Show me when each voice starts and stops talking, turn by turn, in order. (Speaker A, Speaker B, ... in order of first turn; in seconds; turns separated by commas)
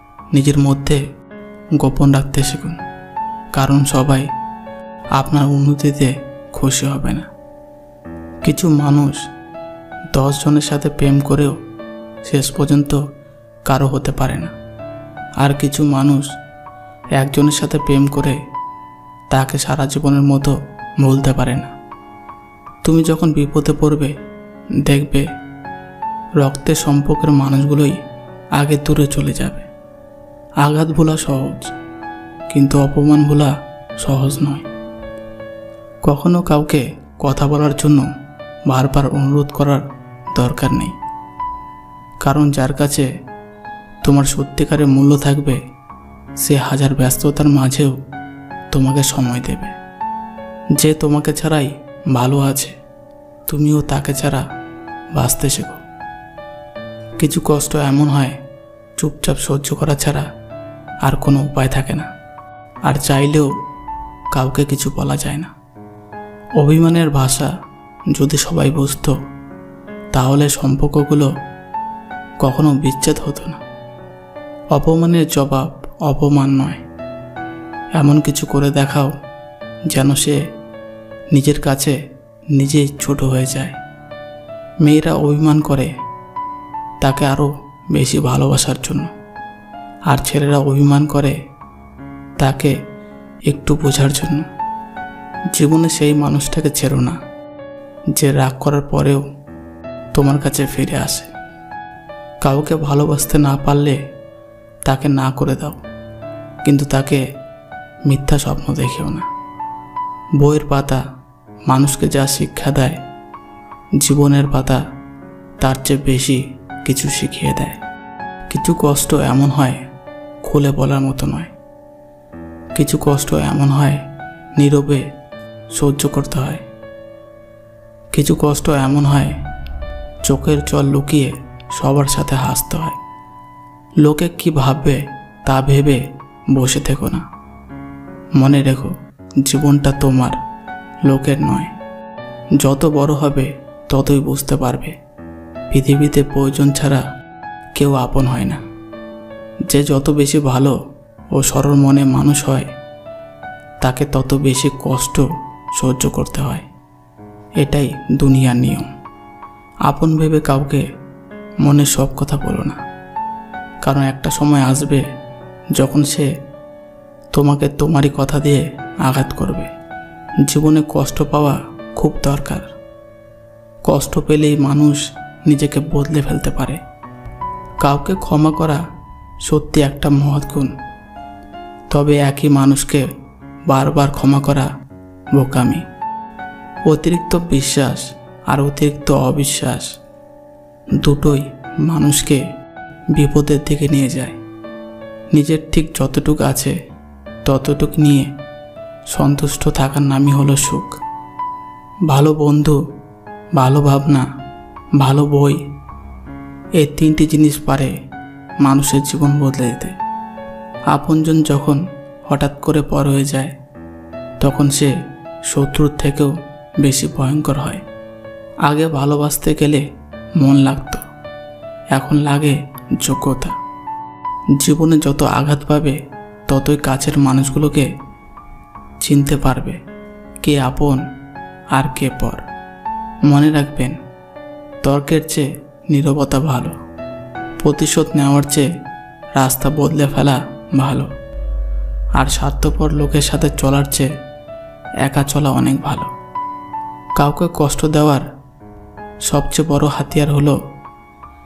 Speaker A: 0.3-1.0, Speaker A: 1.8-2.8, Speaker A: 3.5-4.3, Speaker A: 5.2-7.2, Speaker A: 8.4-9.2, Speaker A: 10.1-11.6, Speaker A: 12.2-13.0, Speaker A: 13.7-14.5, Speaker A: 15.4-16.3, Speaker A: 17.2-18.4, Speaker A: 19.3-21.7, Speaker A: 22.8-24.1, Speaker A: 24.9-25.2, Speaker A: 26.4-27.9, Speaker A: 28.6-29.6, Speaker A: 30.6-31.7, Speaker A: 32.5-34.7, Speaker A: 36.0-38.1, Speaker A: 38.7-39.8, Speaker A: 40.3-40.9, Speaker A: 42.2-43.1, Speaker A: 44.0-45.6, Speaker A: 46.4-48.0, Speaker A: 48.7-49.7, Speaker A: 50.8-52.7, Speaker A: 53.5-54.4, Speaker A: 55.1-55.8, Speaker A: 57.2-58.4, Speaker A: 59.0-60.3, Speaker A: 61.0-62.1, Speaker A: 62.9-63.5, Speaker A: 64.3-65.5, Speaker A: 66.6-67.5, Speaker A: 68.1-69.2, Speaker A: 70.1-71.3, Speaker A: 72.4-73.6, Speaker A: 74.7-76.8, Speaker A: 78.0-79.1, Speaker A: 79.9-80.4, Speaker A: 81.3-82.0, Speaker A: 82.5-83.8, Speaker A: 84.8-85.9, Speaker A: 87.0-89.1, Speaker A: 90.1-91.3, Speaker A: 92.4-92.8, Speaker A: 93.5-94.5, Speaker A: 95.5-97.2, Speaker A: 98.2-99.2, Speaker A: 100.2-101.3, Speaker A: 102.4-104.0, Speaker A: 104.9-105.8, Speaker A: 106.7-107.2, Speaker A: 108.1-109.3, Speaker A: 110.4-111.0, Speaker A: 111.7-113.0, Speaker A: 114.0-114.8, Speaker A: 115.6-117.8, Speaker A: 118.5-119.8, Speaker A: 120.4-121.5, Speaker A: 122.8-124.0, Speaker A: 124.6-125.0, Speaker A: 125.7-126.6, Speaker A: 128.1-129.3, Speaker A: 130.2-132.9, Speaker A: 134.0-136.0, Speaker A: 136.5-137.2, Speaker A: 138.4-138.9, Speaker A: 139.4-140.3, Speaker A: 141.1-141.7, Speaker A: 142.6-144.9, Speaker A: 145.7-147.0, Speaker A: 147.8-148.6, Speaker A: 149.7-150.8, Speaker A: 151.3-152.7, Speaker A: 153.8-155.2, Speaker A: 155.8-156.6, Speaker A: 157.6-158.9, Speaker A: 159.9-160.8, Speaker A: 161.6-162.8, Speaker A: 163.8-165.0, Speaker A: 165.8-166.3, Speaker A: 167.3-169.7, Speaker A: 170.4-172.7, Speaker A: 173.8-176.8, Speaker A: 177.8-178.8, Speaker A: 179.4-180.7, Speaker A: 181.9-183.1, Speaker A: 183.7-184.7, Speaker A: 185.3-185.8, Speaker A: 186.9-189.9, Speaker A: 191.0-192.4, Speaker A: 193.1-194.3, Speaker A: 195.3-196.8, Speaker A: 197.4-198.3, Speaker A: 199.1-200.9, Speaker A: 202.1-202.8, Speaker A: 203.5-204.2, Speaker A: 205.0-205.6, Speaker A: 206.8-207.9, Speaker A: 208.6-209.9, Speaker A: 210.9-213.5, Speaker A: 214.4-214.9, Speaker A: 215.5-217.8, Speaker A: 218.7-219.8, Speaker A: 220.4-221.0, Speaker A: 221.9-223.5, Speaker A: 224.6-226.0, Speaker A: 226.5-227.9, Speaker A: 229.0-229.8, Speaker A: 230.4-231.0, Speaker A: 231.8-232.4, Speaker A: 233.3-233.9, Speaker A: 234.8-236.8, Speaker A: 237.6-238.7, Speaker A: 239.4-241.1, Speaker A: 242.2-244.1, Speaker A: 245.0-246.1, Speaker A: 247.2-248.2, Speaker A: 249.3-250.6